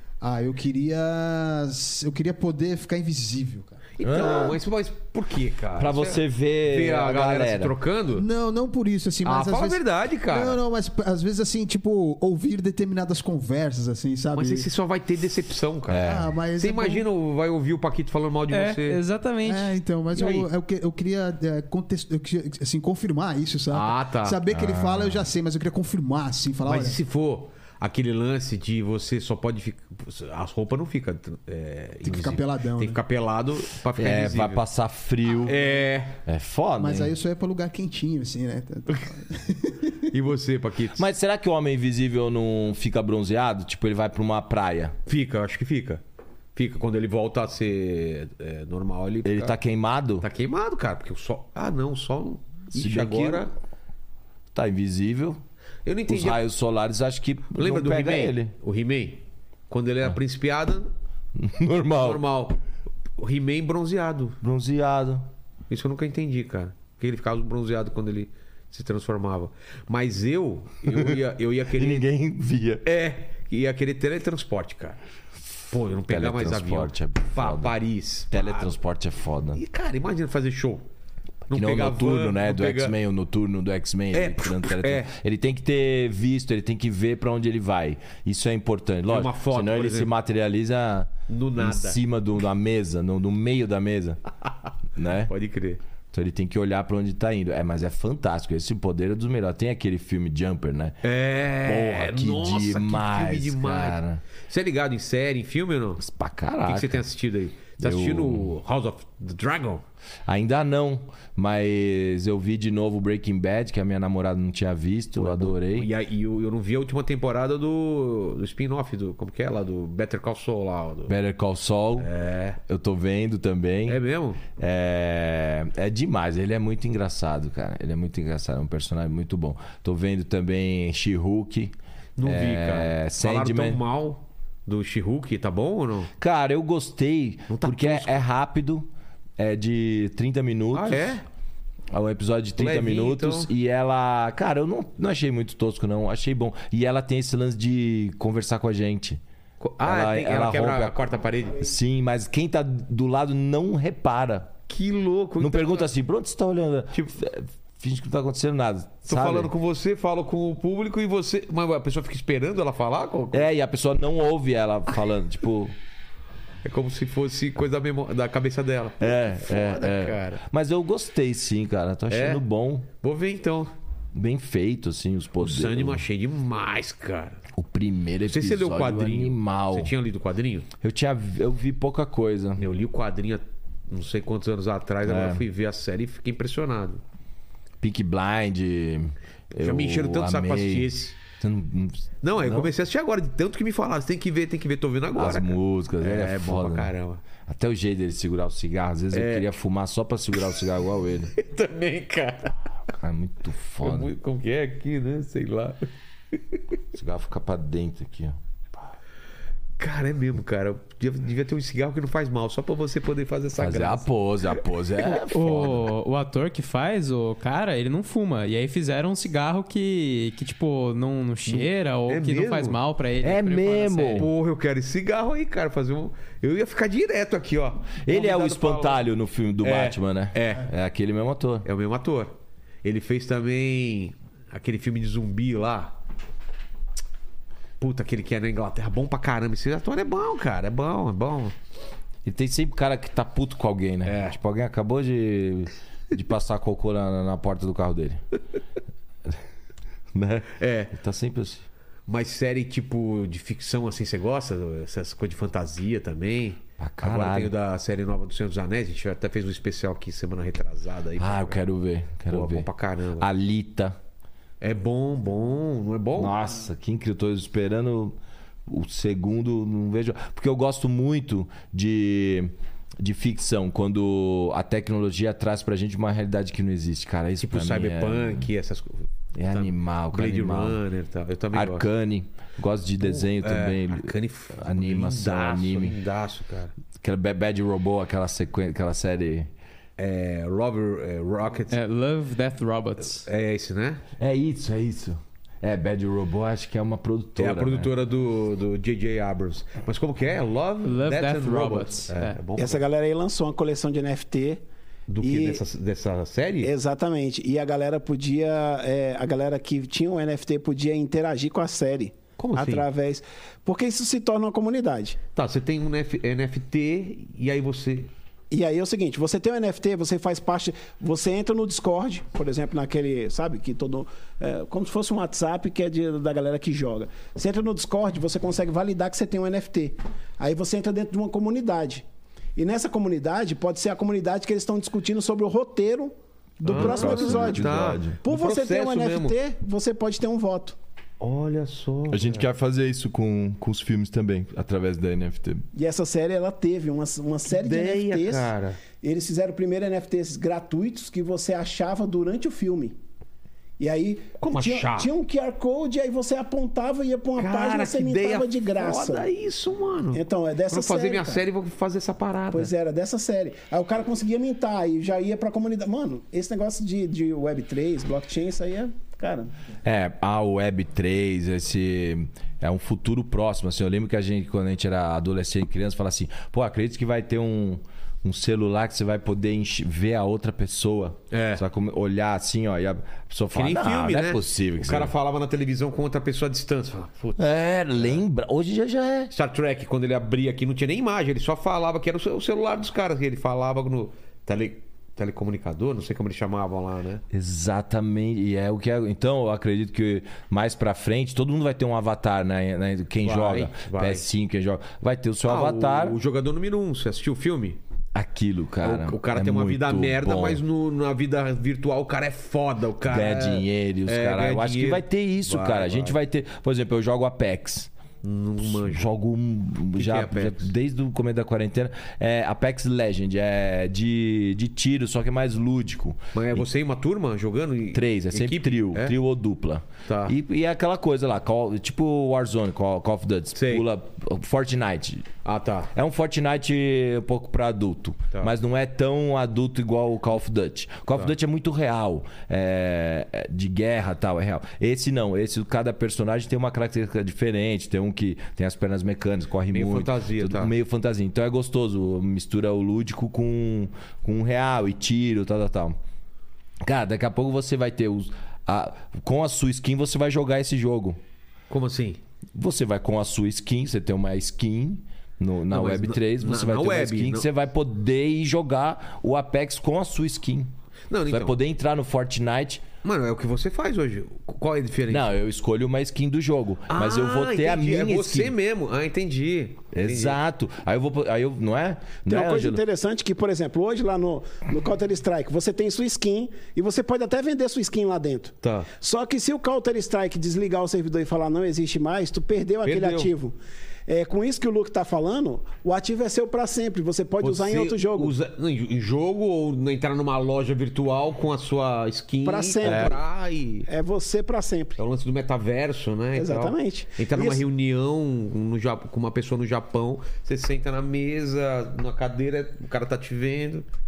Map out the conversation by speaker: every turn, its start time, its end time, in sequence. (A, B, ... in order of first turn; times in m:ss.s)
0:00.2-0:03.8 A
0:04.0-0:08.3 B
0:04.0-0:04.6 C
0:05.8-0:07.7 C
0:08.1-0:14.7 A
0:09.2-0:10.6 B
0:14.3-0:19.0 B
0:15.9-0:16.3 C
0:16.0-0:17.0 A
0:18.5-0:19.7 D
0:19.4-0:27.0 A
0:20.1-0:20.5 B
0:23.7-0:24.4 B
0:24.5-0:25.2 C
0:26.6-0:34.6 B
0:32.0-0:33.0 A
0:34.0-0:35.7 C
0:35.3-0:36.2 B
0:36.2-0:37.1 C
0:36.8-0:40.1 A
0:40.1-0:41.1 B
0:41.0-0:44.9 C
0:45.0-0:46.0 B
0:46.6-0:49.6 B
0:49.2-0:50.3 C
0:50.2-0:53.5 B
0:52.7-0:53.5 C
0:54.5-0:55.4 C
0:55.8-0:56.4 B
0:56.1-0:58.5 C
0:57.6-1:00.9 B
1:01.4-1:02.2 C
1:01.9-1:02.6 B
1:03.2-1:04.4 B
1:04.4-1:05.2 C
1:05.7-1:12.0 B
1:10.9-1:11.1 C
1:11.8-1:12.8 C
1:12.8-1:15.0 B
1:15.7-1:18.7 B
1:16.1-1:17.7 C
1:18.3-1:19.6 C
1:19.5-1:20.9 B
1:21.5-1:22.9 B
1:21.5-1:34.2 C
1:24.1-1:25.1 B
1:29.1-1:30.1 B
1:31.3-1:32.0 B
1:35.0-1:35.3 C
1:35.3-1:35.8 B
1:36.1-1:41.0 C
1:41.0-1:46.0 B
1:41.6-1:44.2 C
1:46.0-1:47.0 C
1:46.6-1:49.8 B
1:47.8-1:48.5 C
1:50.3-1:55.9 C
1:55.2-2:01.1 B
2:01.1-2:02.1 C
2:02.0-2:02.6 B
2:02.6-2:04.0 C
2:03.9-2:04.4 B
2:04.5-2:13.8 C
2:12.2-2:16.1 B
2:16.2-2:21.2 C
2:17.5-2:18.2 B
2:20.7-2:21.2 B
2:21.9-2:29.2 C
2:22.6-2:23.5 B
2:29.6-2:31.7 B
2:29.8-2:30.9 C
2:31.6-2:34.5 C
2:34.7-2:35.9 B
2:35.4-2:39.5 C
2:39.0-2:43.5 B
2:43.3-2:45.7 C
2:46.6-2:50.4 B
2:49.0-2:52.9 C
2:52.1-2:52.4 B
2:53.0-2:53.7 B
2:54.1-2:56.0 C
2:55.4-2:57.4 B
2:57.5-2:59.9 C
2:58.3-3:00.7 B
3:00.8-3:02.6 C
3:02.6-3:07.0 B
3:05.0-3:05.4 C
3:07.8-3:10.9 C
3:09.6-3:11.2 B
3:11.4-3:12.7 C
3:12.2-3:17.2 B
3:15.1-3:16.9 C
3:17.4-3:21.3 C
3:19.1-3:19.5 B
3:21.4-3:22.6 B
3:22.9-3:24.1 C
3:23.8-3:26.4 B
3:26.9-3:28.4 C
3:29.8-3:35.1 B
3:33.6-3:35.9 C
3:35.3-3:44.3 D
3:41.4-3:42.8 B
3:43.2-3:44.3 C
3:44.2-3:49.0 B
3:48.0-3:51.6 C
3:49.6-3:50.7 B
3:51.6-3:52.3 B
3:52.8-3:55.9 B
3:57.8-4:01.6 B
4:02.2-4:08.2 C
4:04.0-4:04.4 B
4:10.1-4:11.6 C
4:10.6-4:10.9 B
4:12.1-4:21.6 B
4:16.8-4:17.5 C
4:21.2-4:22.7 C
4:22.3-4:23.3 B
4:23.2-4:24.0 C
4:24.6-4:26.3 B
4:26.2-4:38.5 C
4:37.4-4:41.9 B
4:39.3-4:40.8 C
4:41.5-4:45.9 C
4:43.0-4:46.7 B
4:47.0-4:49.5 C
4:50.0-4:51.8 B
4:51.7-4:53.3 D
4:53.1-4:54.0 B
4:54.2-4:57.9 C
4:57.4-5:02.8 B
5:00.8-5:02.4 D
5:02.6-5:04.6 E
5:05.1-5:06.7 B
5:05.2-5:05.6 E
5:06.6-5:15.2 E
5:12.4-5:12.8 B
5:15.4-5:18.1 B
5:18.5-5:32.0 E
5:32.6-5:40.8 E
5:36.7-5:38.2 C
5:36.7-5:39.3 B
5:41.2-5:42.4 B
5:42.1-5:45.6 C
5:45.7-5:53.0 E
5:47.5-5:48.8 B
5:53.8-5:59.3 E
5:54.4-5:55.1 B
5:57.4-6:02.7 B
6:00.1-6:01.4 E
6:02.5-6:09.5 E
6:09.8-6:25.1 C
6:21.3-6:21.6 B
6:23.5-6:28.2 B
6:27.4-6:29.3 C
6:29.3-6:37.2 B
6:37.3-6:46.2 C
6:43.2-6:44.2 B
6:45.4-6:47.8 B
6:48.1-6:50.6 C
6:48.8-6:56.2 B
6:53.0-6:57.9 C
6:58.2-6:59.1 B
6:58.6-7:06.6 C
6:59.9-7:00.7 B
7:06.3-7:09.1 B
7:07.9-7:15.3 C
7:10.0-7:10.4 B
7:13.6-7:13.9 B
7:15.4-7:15.9 B
7:15.9-7:36.0 C
7:29.7-7:30.7 B
7:36.8-7:41.2 C
7:41.7-7:42.2 B
7:42.6-7:50.7 C
7:45.7-7:47.5 B
7:51.1-7:51.6 B
7:51.3-7:52.8 C
7:53.0-7:55.4 B
7:55.1-7:58.5 C
7:56.9-8:00.4 B
7:59.9-8:02.8 C
8:02.3-8:13.6 E
8:08.6-8:08.9 B
8:12.8-8:13.3 B
8:14.1-8:18.3 E
8:17.4-8:23.9 B
8:22.4-8:23.2 E
8:22.8-8:23.1 C
8:23.9-8:25.0 E
8:25.0-8:33.9 B
8:26.3-8:27.6 E